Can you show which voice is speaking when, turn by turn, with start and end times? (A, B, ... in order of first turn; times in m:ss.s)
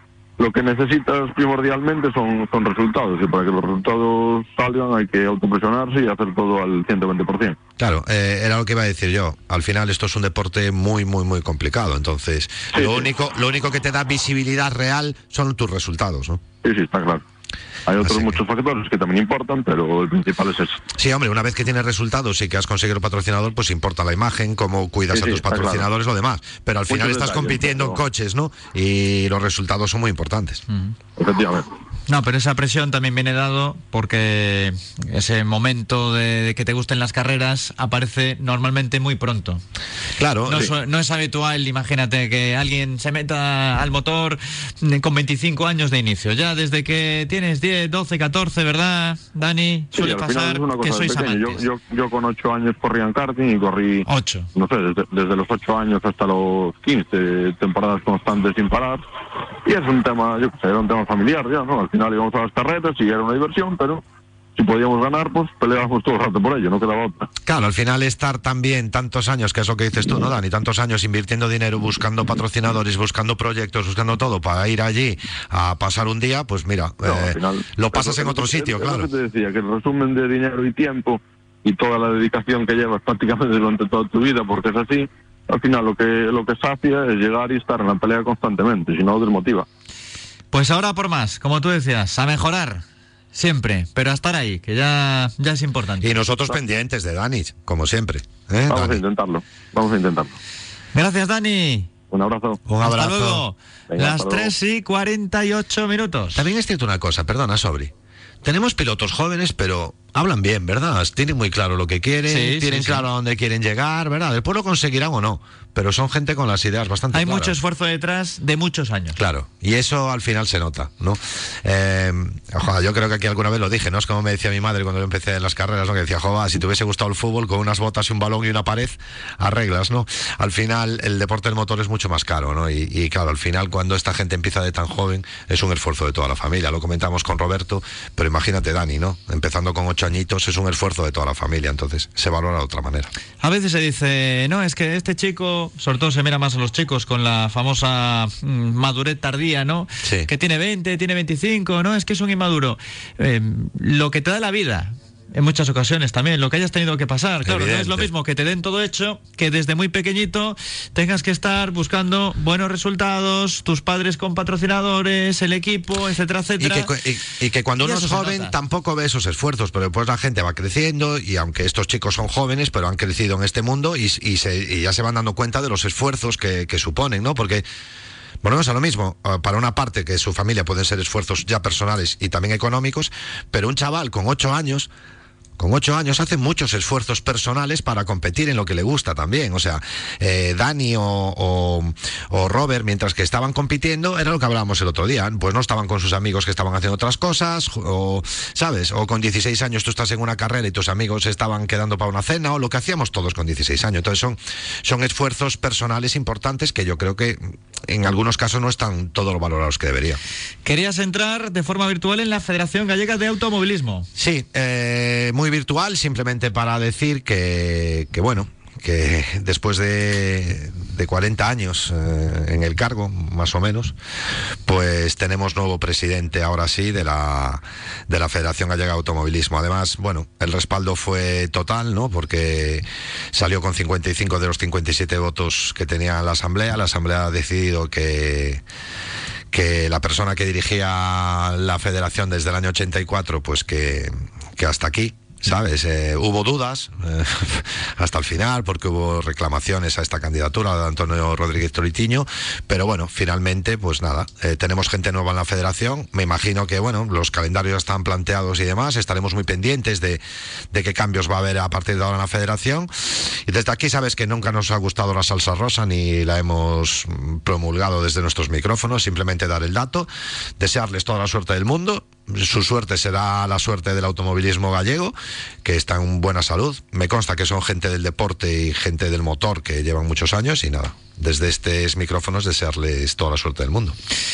0:00.4-0:07.6 A
0:07.8-0:16.4 B
0:12.7-0:13.1 A
0:16.6-0:17.2 A
0:17.9-0:20.8 A
0:18.0-0:18.4 B
0:21.0-0:30.6 B
0:25.1-0:25.9 A
0:26.9-0:28.0 A
0:31.2-0:31.7 A
0:32.1-0:39.6 C
0:40.2-0:40.7 B
0:40.5-0:51.6 C
0:49.9-0:59.0 A
0:54.1-0:54.5 C
0:59.6-1:04.0 A
1:04.6-1:07.3 A
1:07.4-1:19.1 B
1:17.0-1:29.7 A
1:30.5-1:36.2 C
1:36.0-1:39.0 B
1:38.7-1:40.4 A
1:40.9-1:41.9 C
1:42.1-1:42.6 A
1:42.7-1:43.5 B
1:42.8-1:46.5 C
1:43.9-1:44.5 A
1:46.4-1:47.9 B
1:48.4-1:57.6 B
1:52.3-1:53.0 C
1:57.1-1:59.2 C
1:59.2-2:23.1 B
2:23.4-2:46.9 C
2:30.0-2:30.3 B
2:37.4-2:38.1 B
2:46.6-2:57.6 B
2:47.8-2:48.6 C
2:58.4-3:04.9 B
3:05.6-3:30.2 B
3:30.6-3:34.1 C
3:34.2-3:44.0 B
3:44.7-3:58.6 B
3:59.5-4:20.2 B
4:20.7-4:44.0 B